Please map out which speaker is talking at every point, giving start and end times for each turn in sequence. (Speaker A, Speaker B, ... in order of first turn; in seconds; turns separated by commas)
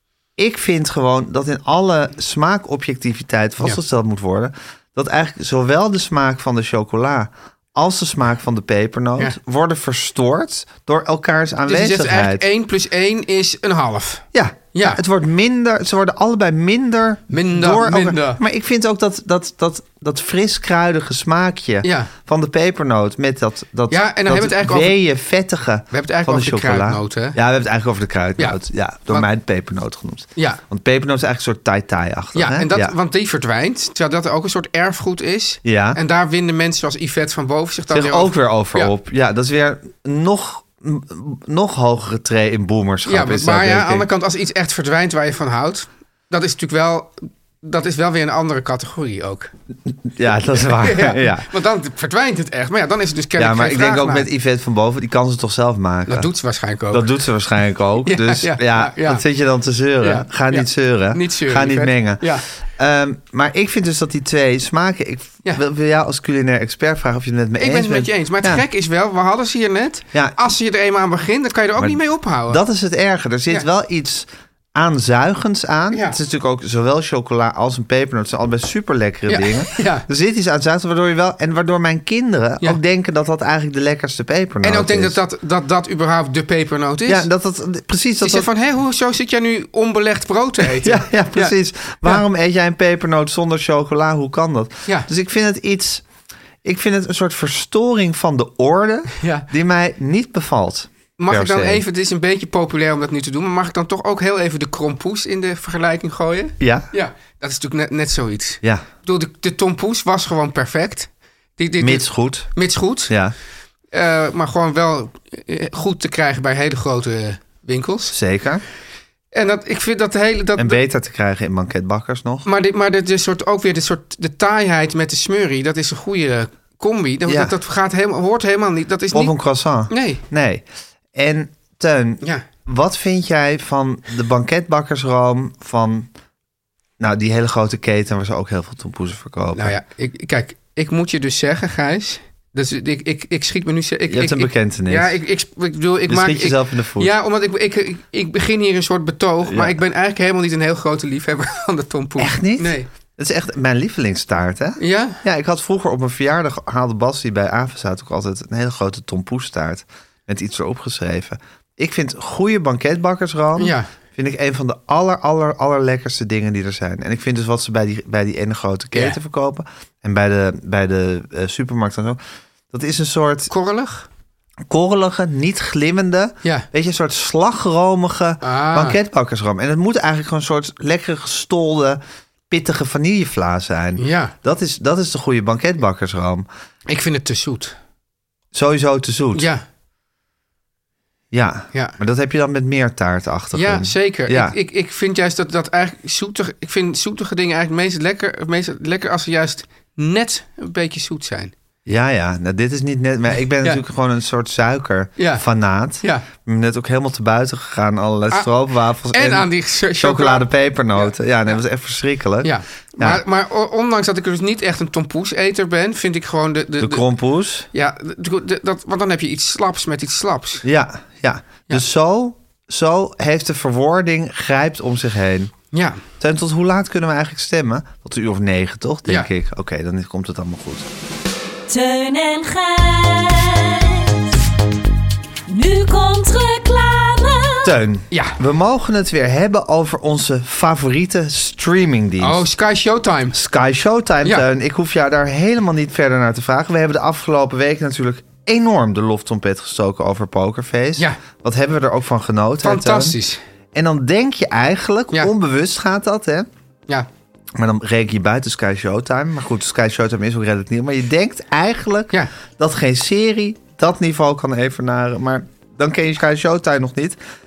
Speaker A: 0.4-12.4, Speaker B: 11.7-15.0, Speaker A: 14.3-32.9, Speaker B: 17.3-18.4, Speaker B: 21.8-22.1, Speaker B: 23.9-25.0, Speaker B: 25.9-27.4, Speaker B: 28.4-29.3, Speaker B: 32.4-38.9, Speaker A: 35.6-36.0, Speaker A: 37.9-44.1, Speaker B: 43.1-49.5, Speaker A: 50.0-51.5, Speaker B: 50.6-54.3, Speaker A: 53.4-56.3, Speaker B: 56.1-57.1, Speaker A: 56.9-68.6, Speaker B: 58.0-59.2, Speaker B: 60.0-62.5, Speaker B: 67.6-72.6, Speaker A: 71.8-85.2, Speaker B: 75.9-76.2, Speaker B: 79.3-80.1, Speaker B: 84.6-87.3, Speaker A: 87.1-88.5, Speaker B: 88.2-92.2, Speaker A: 90.8-96.0, Speaker A: 96.6-101.8, Speaker B: 99.2-99.5, Speaker B: 101.2-113.1, Speaker A: 106.6-106.9, Speaker A: 111.8-112.5, Speaker A: 113.1-113.3, Speaker B: 113.9-118.2, Speaker A: 118.1-118.6, Speaker B: 119.3-120.8, Speaker A: 120.6-122.5, Speaker B: 122.5-129.3, Speaker A: 127.3-127.5, Speaker A: 129.1-136.1, Speaker B: 129.9-130.2, Speaker A: 137.0-139.8, Speaker B: 139.6-152.9, Speaker A: 144.1-145.2, Speaker A: 146.1-147.1, Speaker A: 149.4-149.8, Speaker A: 152.2-172.2, Speaker B: 154.8-155.2, Speaker B: 163.6-163.9, Speaker A: 172.7-173.5, Speaker B: 173.5-174.1, Speaker A: 174.7-186.5, Speaker B: 178.4-179.0, Speaker B: 184.0-184.3, Speaker B: 186.9-187.8, Speaker A: 188.5-189.5, Speaker B: 189.3-189.6, Speaker A: 191.3-194.5, Speaker B: 193.5-201.5, Speaker A: 201.9-213.2, Speaker B: 205.2-205.4, Speaker B: 209.1-211.1, Speaker B: 212.4-217.1, Speaker A: 216.8-217.7, Speaker B: 217.7-220.7, Speaker A: 220.6-225.5, Speaker B: 225.7-226.0, Speaker A: 226.2-230.9, Speaker C: 231.7-234.4, Speaker C: 235.5-237.7, Speaker A: 237.6-242.4, Speaker B: 238.1-238.4, Speaker B: 242.2-243.4, Speaker A: 243.3-253.2, Speaker B: 252.6-253.4, Speaker A: 253.8-256.5, Speaker A: 257.6-267.2